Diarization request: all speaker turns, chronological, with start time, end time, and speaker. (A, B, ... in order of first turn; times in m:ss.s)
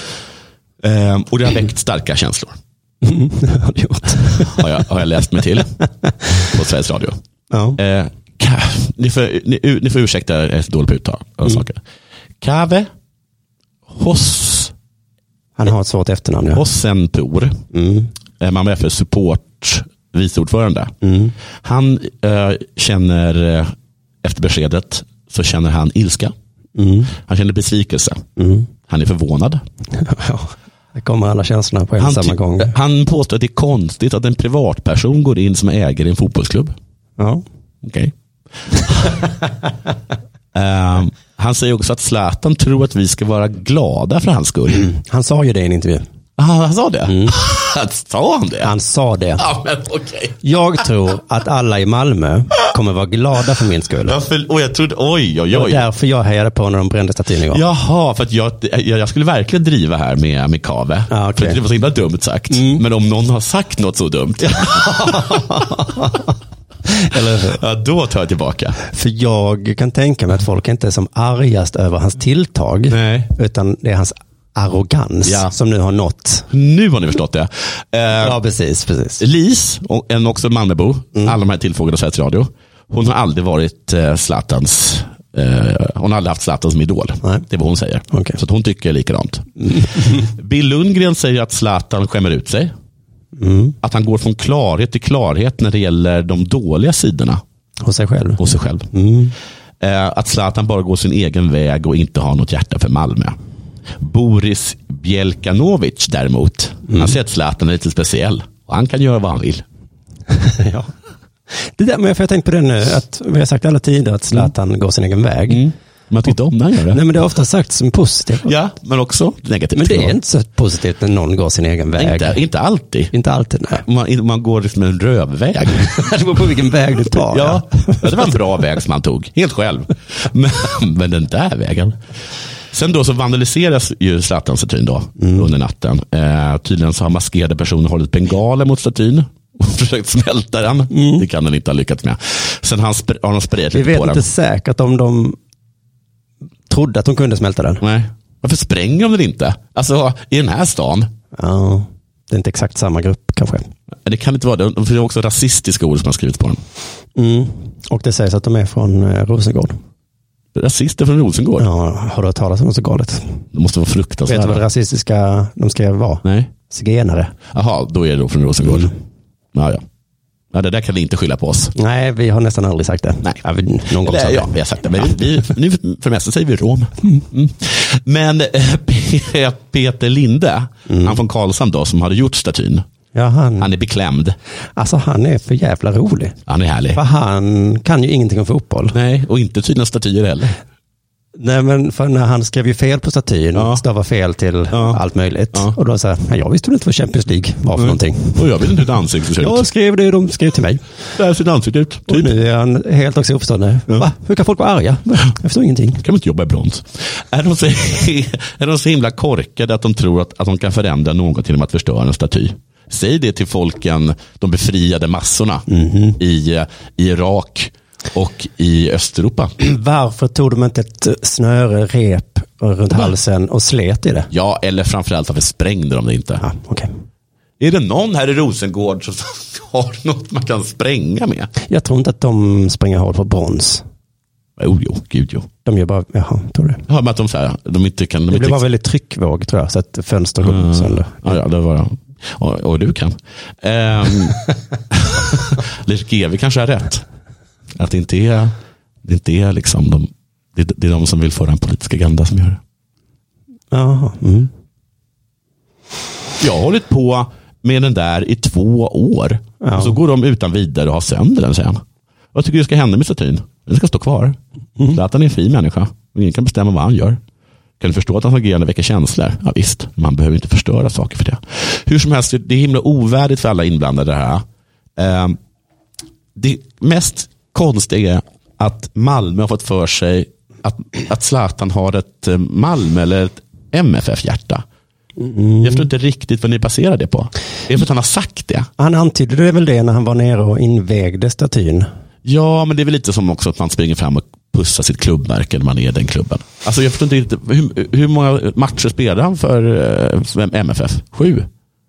0:00.8-0:02.6 A
0:03.0-0:04.7 B
0:04.4-0:05.8 A
0:06.3-0:07.2 A
0:07.5-0:07.8 B
0:07.8-0:11.8 A
0:12.4-0:12.9 A
0:13.9-0:14.7 A
0:15.6-0:16.6 B
0:16.5-0:17.6 A
0:17.7-0:18.1 B
0:18.4-0:20.9 A
0:21.0-0:21.3 B
0:21.6-0:26.3 A
0:26.8-0:27.1 B
0:27.2-0:28.2 A
0:28.4-0:28.7 B
0:28.9-0:29.6 A
0:30.0-0:32.7 B
0:32.0-0:36.7 A
0:37.2-0:37.4 B
0:37.8-0:38.1 A
0:38.7-0:39.2 A
0:40.5-0:44.9 A
0:44.8-0:46.0 B
0:46.4-0:48.7 A
0:47.1-0:47.4 B
0:48.6-0:49.4 B
0:49.4-0:50.4 A
0:50.4-0:54.2 B
0:54.0-0:55.8 A
0:55.5-0:57.6 B
0:57.5-1:05.4 A
1:01.1-1:01.6 B
1:02.5-1:02.8 B
1:04.4-1:06.2 B
1:06.9-1:07.6 B
1:07.1-1:08.8 A
1:08.8-1:16.5 B
1:12.9-1:13.3 A
1:15.2-1:15.5 A
1:16.5-1:18.4 A
1:18.2-1:19.2 B
1:19.2-1:32.7 A
1:28.1-1:28.4 B
1:29.7-1:30.2 B
1:33.4-1:33.7 B
1:33.8-1:37.4 A
1:37.8-1:39.3 B
1:38.4-1:38.9 A
1:39.8-1:43.4 A
1:44.0-1:49.6 A
1:46.9-1:47.2 B
1:50.3-1:50.9 B
1:51.6-1:55.6 B
1:55.5-1:57.0 A
1:56.9-1:58.5 B
1:58.4-2:00.2 A
1:59.7-2:02.4 B
2:02.0-2:03.1 A
2:03.1-2:03.8 B
2:03.8-2:06.0 A
2:05.8-2:08.3 B
2:07.1-2:12.0 A
2:12.7-2:24.2 A
2:15.2-2:15.5 B
2:20.9-2:21.2 B
2:23.7-2:25.4 B
2:26.7-2:27.8 B
2:27.8-2:31.1 A
2:31.4-2:33.7 B
2:34.0-2:36.6 A
2:37.2-2:39.8 B
2:40.5-2:41.6 A
2:41.6-2:43.4 B
2:43.5-2:44.6 A
2:44.3-2:47.3 B
2:46.2-2:46.5 A
2:47.5-2:48.9 A
2:49.5-2:49.8 A
2:50.5-2:51.7 A
2:51.7-2:55.1 B
2:53.2-3:02.8 A
3:00.9-3:01.2 B
3:03.1-3:03.7 B
3:03.6-3:04.4 A
3:04.8-3:06.4 B
3:06.5-3:07.0 A
3:06.9-3:08.9 B
3:08.9-3:10.6 A
3:11.4-3:18.8 B
3:13.5-3:13.8 A
3:14.7-3:15.0 A
3:17.8-3:19.6 A
3:19.4-3:20.8 B
3:21.2-3:22.3 A
3:22.1-3:26.0 B
3:26.0-3:35.6 A
3:35.7-3:36.2 B
3:36.2-3:39.5 A
3:39.6-3:44.3 B
3:44.3-3:46.4 A
3:46.4-3:46.9 B
3:47.6-3:51.5 A
3:51.6-3:53.8 B
3:54.6-3:55.5 A
3:55.6-3:56.8 B
3:56.9-3:58.6 A
3:58.3-4:01.3 B
4:00.4-4:04.4 A
4:04.9-4:07.0 A
4:07.7-4:12.6 A
4:13.7-4:14.5 B
4:16.4-4:21.8 A
4:19.6-4:20.0 B
4:22.3-4:24.4 A
4:24.9-4:27.2 A
4:27.8-4:34.4 A
4:35.0-4:35.4 A
4:36.3-4:44.6 A
4:45.2-4:45.9 B
4:45.6-4:48.7 A
4:48.8-4:51.9 B
4:52.2-5:01.5 A